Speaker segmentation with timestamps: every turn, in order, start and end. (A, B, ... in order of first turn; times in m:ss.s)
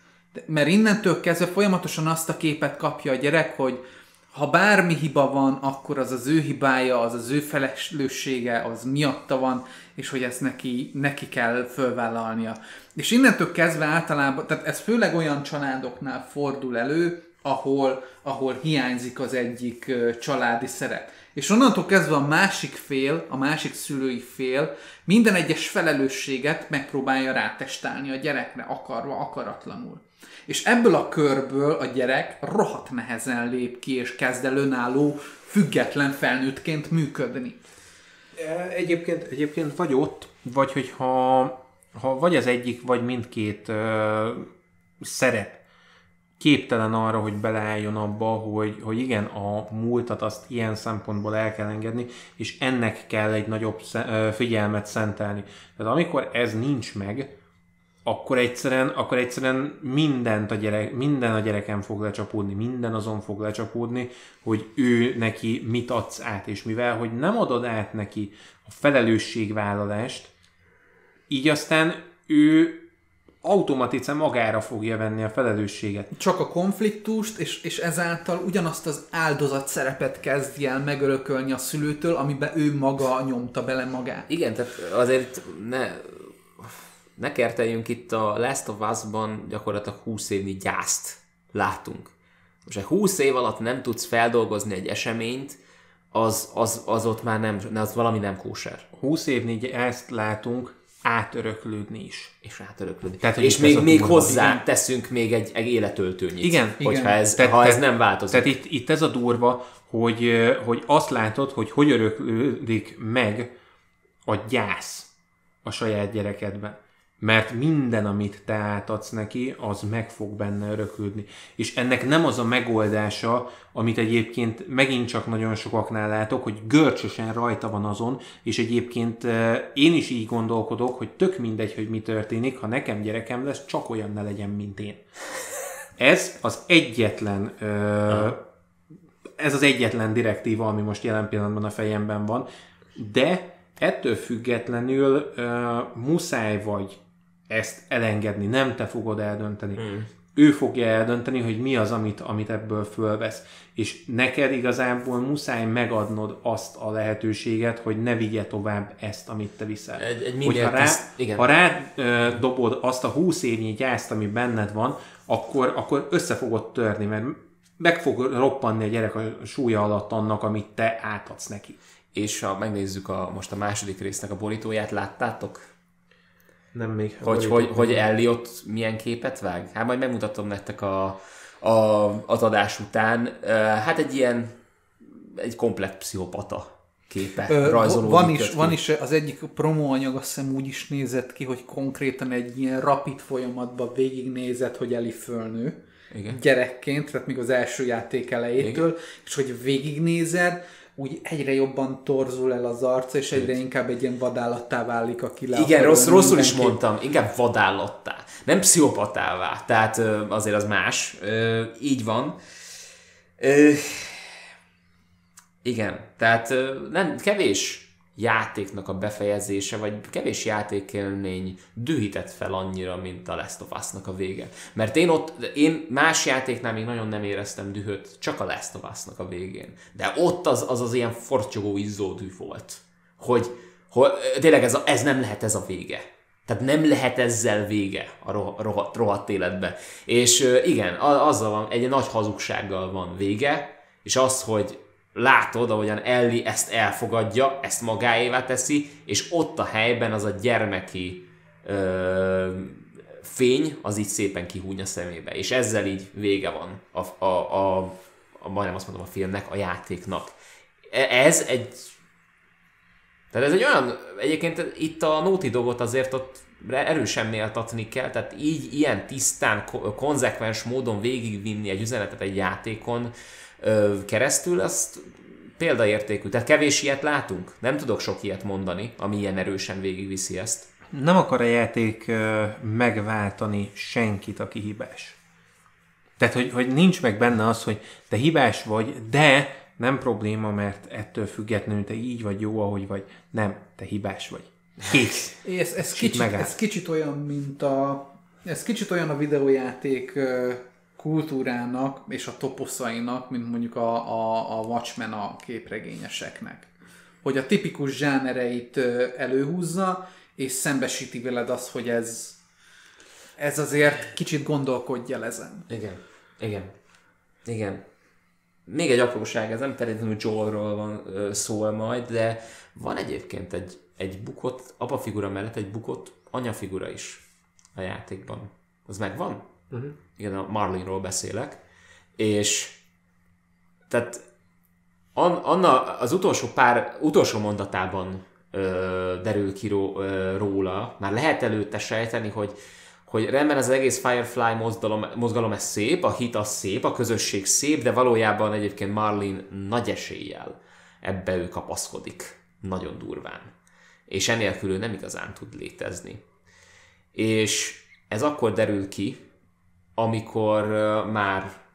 0:00.3-0:37.6 A
0:38.4-0:44.5 B
0:45.0-0:45.6 B
0:46.4-0:57.3 B
0:58.0-1:10.3 B
1:11.3-1:12.8 B
1:13.4-1:16.1 B
1:16.1-1:24.3 A
1:24.3-1:32.1 C
1:32.6-1:35.6 C
1:36.1-1:38.9 C
1:38.9-1:42.3 B
1:42.4-1:48.5 C
1:43.2-1:44.6 B
1:46.4-1:53.5 B
1:46.8-1:47.2 A
1:54.2-1:55.1 B
1:55.6-2:15.0 B
2:16.0-2:18.4 B
2:19.4-2:29.8 B
2:29.8-2:30.1 C
2:30.3-2:51.8 B
2:40.0-2:41.4 C
2:52.1-2:55.6 C
2:56.7-2:58.0 B
2:57.2-3:08.8 C
3:07.5-3:26.8 A
3:16.1-3:16.4 C
3:25.5-3:32.4 C
3:33.4-3:34.4 C
3:35.6-4:20.3 C
4:20.9-4:21.9 C
4:23.3-4:40.7 C
4:40.9-4:45.2 B
4:46.2-4:56.6 B
4:55.4-5:06.7 A
5:07.2-5:12.4 A
5:13.4-5:15.7 A
5:15.7-5:16.7 C
5:17.4-5:17.8 C
5:18.7-5:27.2 C
5:27.7-5:29.5 C
5:30.2-5:31.6 C
5:32.2-5:32.8 C
5:33.9-5:34.2 C
5:35.1-5:53.5 C
5:54.1-5:56.2 C
5:57.1-5:59.2 C
6:00.0-6:01.6 C